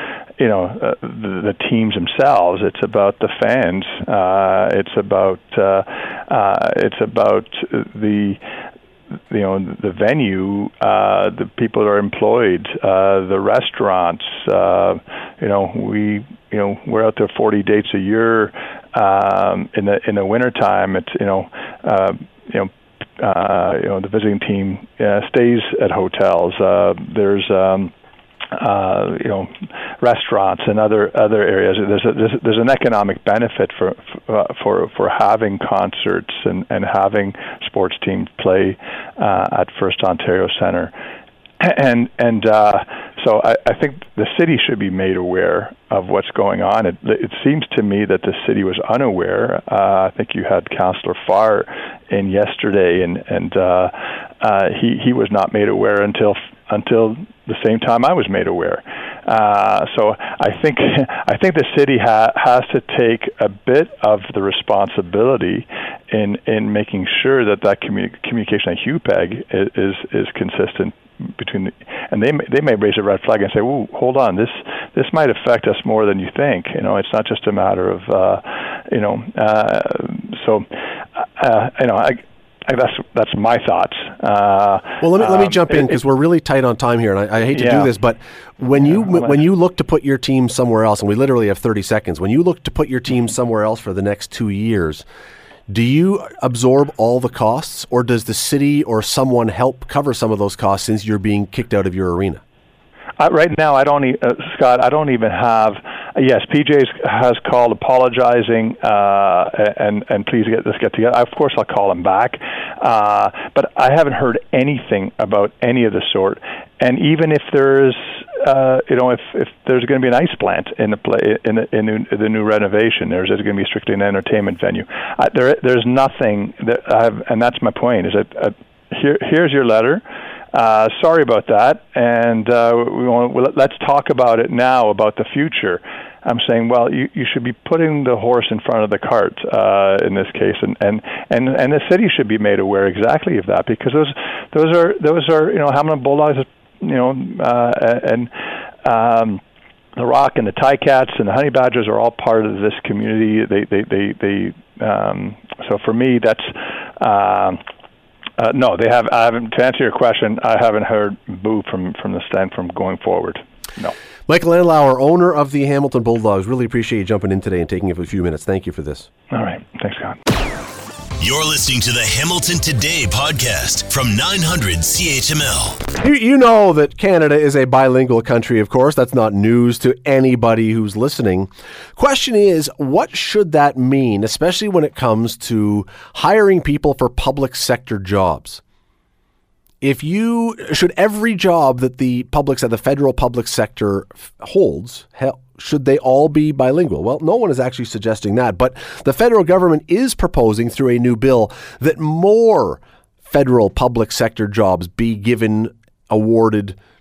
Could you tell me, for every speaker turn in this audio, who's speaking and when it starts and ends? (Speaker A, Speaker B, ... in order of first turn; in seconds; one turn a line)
Speaker A: 0.4-8.4
Speaker A: 9.3-27.9
Speaker A: 28.5-40.9
Speaker A: 41.6-86.0
Speaker B: 85.0-95.0
Speaker A: 87.5-87.9
Speaker A: 88.8-89.4
Speaker B: 95.7-102.4
Speaker A: 103.2-148.3
Speaker A: 148.8-149.4
Speaker A: 149.9-157.6
Speaker A: 158.4-163.9
Speaker B: 164.3-169.1
Speaker A: 169.3-170.2
Speaker C: 171.2-175.8
Speaker B: 175.9-188.6
Speaker B: 189.8-206.8